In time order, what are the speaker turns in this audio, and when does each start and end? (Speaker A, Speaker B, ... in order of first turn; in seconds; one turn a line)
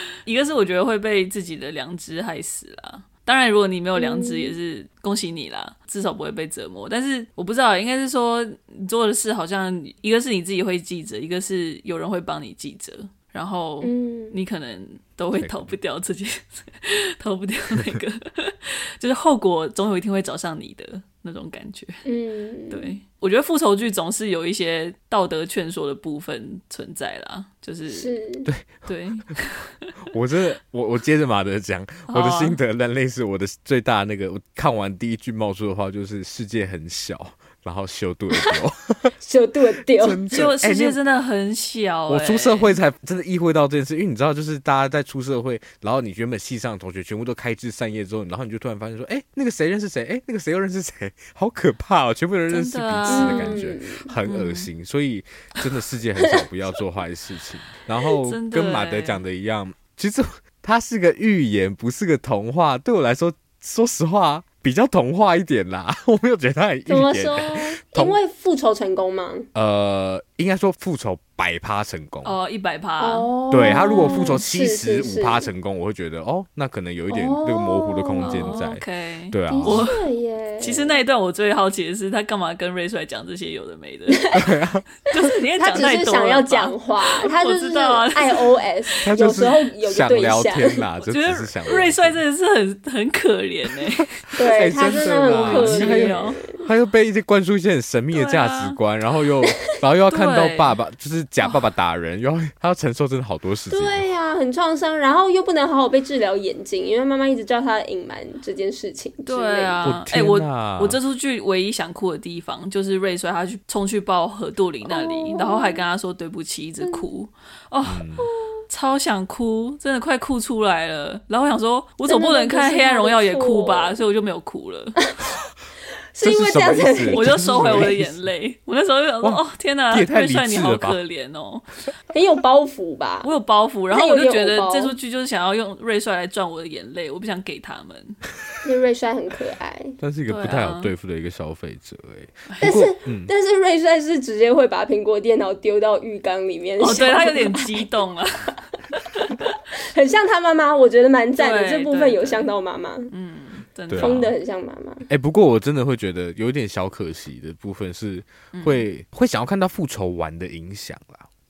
Speaker A: 0.2-22.1
Speaker B: 4.0-4.5
Speaker B: 13.8-14.3
Speaker C: 15.3-15.7
Speaker B: 22.0-22.9
Speaker A: 22.7-28.1
Speaker B: 27.9-28.5
Speaker C: 28.4-28.9
Speaker A: 28.9-29.9
Speaker C: 30.1-39.1
Speaker A: 32.1-32.6
Speaker B: 39.2-40.2
Speaker C: 39.9-41.0
Speaker A: 40.3-42.7
Speaker C: 42.1-68.2
Speaker A: 52.5-53.6
Speaker B: 53.1-54.1
Speaker A: 54.2-54.7
Speaker A: 58.2-59.2
Speaker B: 66.9-69.5
Speaker C: 69.5-72.3
Speaker A: 72.2-74.3
Speaker B: 73.0-75.5
Speaker C: 73.5-79.9
Speaker B: 77.1-78.6
Speaker A: 78.2-80.0
Speaker B: 79.5-81.0
Speaker A: 80.6-84.3
Speaker B: 84.2-84.5
Speaker C: 84.3-84.8
Speaker A: 85.1-89.0
Speaker B: 85.2-90.8
Speaker C: 89.0-92.2
Speaker A: 91.0-94.1
Speaker B: 94.3-96.6
Speaker C: 94.4-104.1
Speaker A: 95.3-96.4
Speaker A: 98.1-98.8
Speaker A: 100.1-100.8
Speaker B: 103.7-109.8
Speaker A: 109.2-118.0
Speaker C: 109.8-111.0
Speaker B: 114.8-115.8
Speaker C: 117.8-118.3
Speaker B: 118.2-118.5
Speaker A: 118.7-125.0
Speaker B: 122.0-124.0
Speaker B: 125.0-125.3
Speaker B: 126.1-127.9
Speaker C: 126.2-128.2
Speaker A: 127.1-131.7
Speaker C: 129.2-131.0
Speaker B: 132.1-133.3
Speaker A: 133.2-138.2
Speaker B: 133.9-134.9
Speaker B: 138.6-139.9
Speaker C: 140.0-143.3
Speaker A: 140.3-140.9
Speaker A: 142.5-142.8
Speaker B: 142.6-147.9
Speaker A: 146.8-149.5
Speaker B: 149.9-153.1
Speaker A: 151.4-152.5
Speaker A: 153.1-154.2
Speaker C: 153.9-154.3
Speaker B: 153.9-155.1
Speaker C: 155.1-161.3
Speaker A: 158.5-158.8